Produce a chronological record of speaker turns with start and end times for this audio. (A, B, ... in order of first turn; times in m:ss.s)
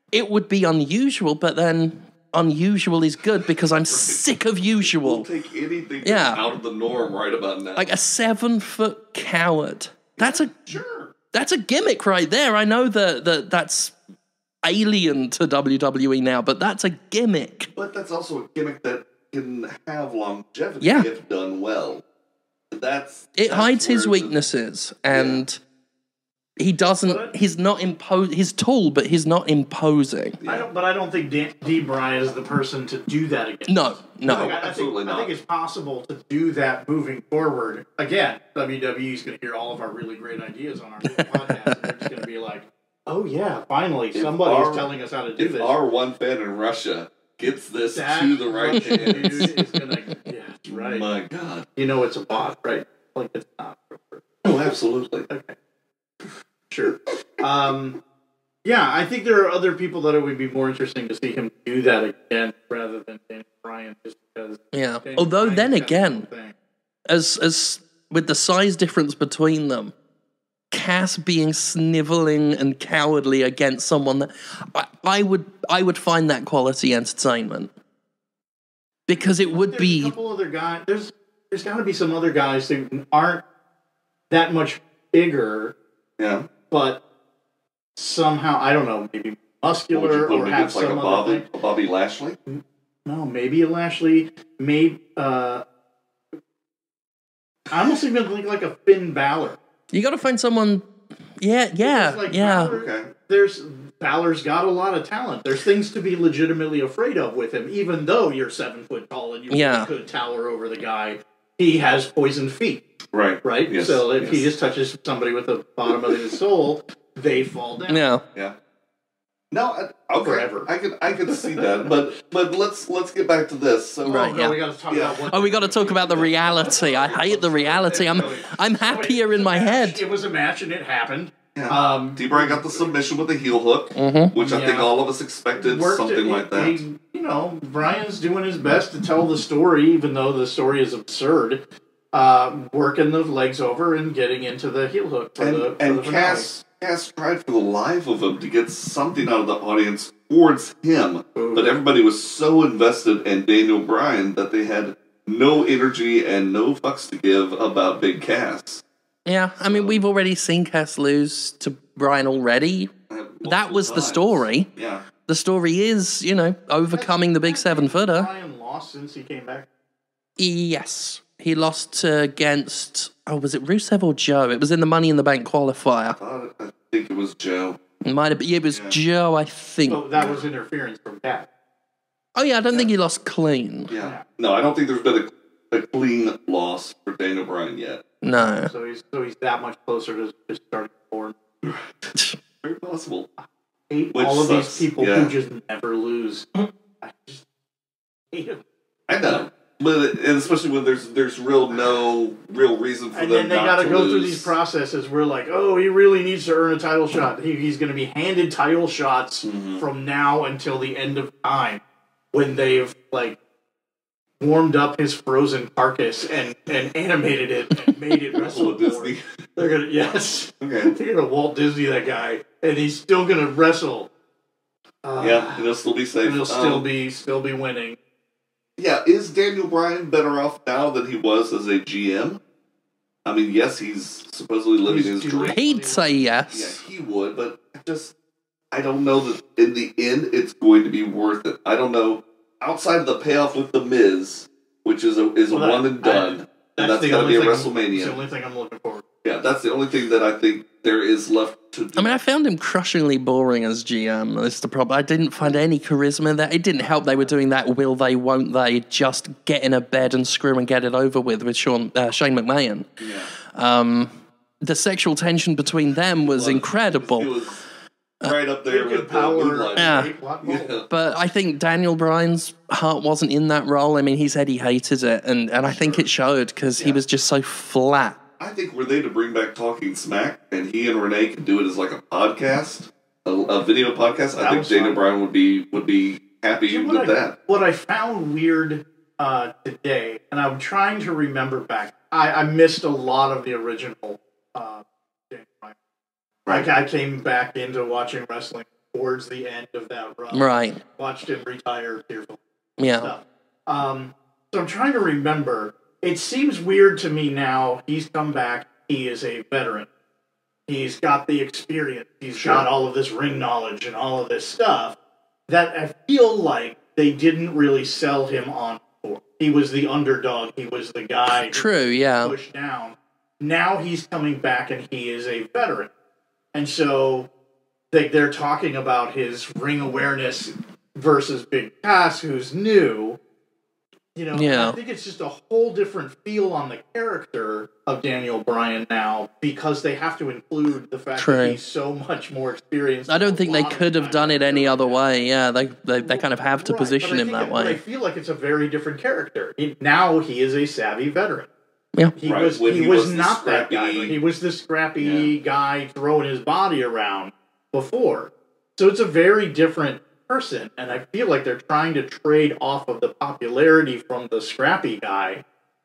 0:00.1-0:05.3 A
0:03.9-0:04.2 B
0:04.8-0:07.9 B
0:06.0-0:06.4 A
0:07.8-0:10.5 A
0:10.2-0:11.1 C
0:11.3-0:14.0 A
0:14.6-0:17.7 A
0:17.8-0:22.0 B
0:20.8-0:21.1 A
0:22.7-0:24.4 B
0:23.4-0:25.6 A
0:25.1-0:25.4 B
0:26.6-0:30.4 A
0:27.0-0:27.3 C
0:30.4-0:30.7 B
0:30.5-0:45.7 C
0:33.7-0:34.5 A
0:34.3-0:35.3 B
0:41.0-0:42.1 A
0:44.2-0:49.5 B
0:47.9-0:51.1 C
0:48.8-0:49.6 A
0:50.7-0:51.7 B
0:51.8-0:54.5 C
0:54.4-0:55.3 B
0:55.3-0:55.5 C
0:56.7-0:58.0 C
0:58.6-1:06.5 C
1:04.7-1:06.3 A
1:07.1-1:09.9 A
1:10.7-1:17.7 A
1:19.1-1:20.1 A
1:19.1-1:23.4 C
1:24.3-1:25.7 C
1:26.2-1:26.5 B
1:26.7-1:27.0 C
1:28.0-1:31.4 C
1:29.9-1:32.4 B
1:32.5-1:35.6 C
1:37.7-1:39.6 C
1:39.9-1:40.9 A
1:41.4-1:42.7 A
1:41.8-1:52.8 C
1:42.6-1:43.1 B
1:49.5-1:49.9 A
1:53.1-1:54.5 B
1:53.4-1:58.0 C
1:57.9-1:58.2 A
1:59.5-2:04.3 B
2:00.2-2:00.7 C
2:01.3-2:01.9 C
2:04.1-2:04.6 A
2:04.1-2:13.0 C
2:04.9-2:05.2 B
2:05.3-2:10.0 A
2:06.1-2:07.1 B
2:07.9-2:08.3 B
2:11.6-2:16.8 B
2:14.0-2:14.3 A
2:14.4-2:14.9 C
2:15.6-2:26.5 C
2:25.4-2:38.8 B
2:31.4-2:31.7 C
2:39.3-2:42.9 A
2:39.6-2:40.0 B
2:43.1-2:45.0 B
2:43.4-2:44.7 A
2:45.3-2:48.3 A
2:46.9-2:49.7 C
2:50.4-2:56.2 A
2:56.1-2:57.8 B
2:58.0-3:00.0 A
2:58.7-2:59.0 B
2:59.9-3:01.5 C
3:00.2-3:00.4 B
3:02.4-3:03.9 A
3:03.9-3:08.0 B
3:04.0-3:04.2 C
3:08.2-3:08.7 A
3:08.6-3:11.4 C
3:12.6-3:13.3 B
3:13.9-3:17.4 C
3:14.1-3:15.3 B
3:18.3-3:18.6 C
3:19.1-3:24.5 B
3:23.1-3:31.8 C
3:29.4-3:29.8 B
3:32.3-3:33.4 C
3:34.4-3:44.1 C
3:38.3-3:39.2 B
3:40.6-3:41.0 B
3:45.0-3:45.6 C
3:45.2-3:46.8 B
3:46.2-3:48.0 C
3:48.8-3:52.4 B
3:53.2-3:55.6 B
3:54.8-3:56.2 C
3:55.5-3:56.8 A
3:56.5-3:58.1 B
3:58.7-4:08.2 B
4:05.5-4:09.0 C
4:09.2-4:12.2 B
4:12.0-4:27.3 A
4:16.8-4:17.4 C
4:23.0-4:23.3 B
4:26.2-4:27.6 B
4:28.2-4:30.9 B
4:28.7-4:30.8 C
4:29.8-4:30.1 A
4:30.9-4:38.2 A
4:35.6-4:36.1 B
4:38.4-4:47.4 B
4:44.4-4:45.0 C
4:46.7-4:55.8 C
4:56.5-5:02.4 C
5:00.3-5:00.8 A
5:02.8-5:03.1 A
5:03.0-5:09.9 C
5:10.7-5:15.0 C
5:12.4-5:12.6 B
5:15.5-5:21.7 C
5:21.3-5:22.3 A
5:22.2-5:25.9 C
5:26.5-5:27.3 C
5:27.9-5:33.2 C
5:34.2-5:45.0 C
5:34.3-5:34.8 A
5:41.2-5:41.6 A
5:43.1-5:47.8 A
5:46.0-5:51.5 C
5:52.2-6:05.4 C
5:52.2-5:54.2 B
5:55.0-5:55.3 B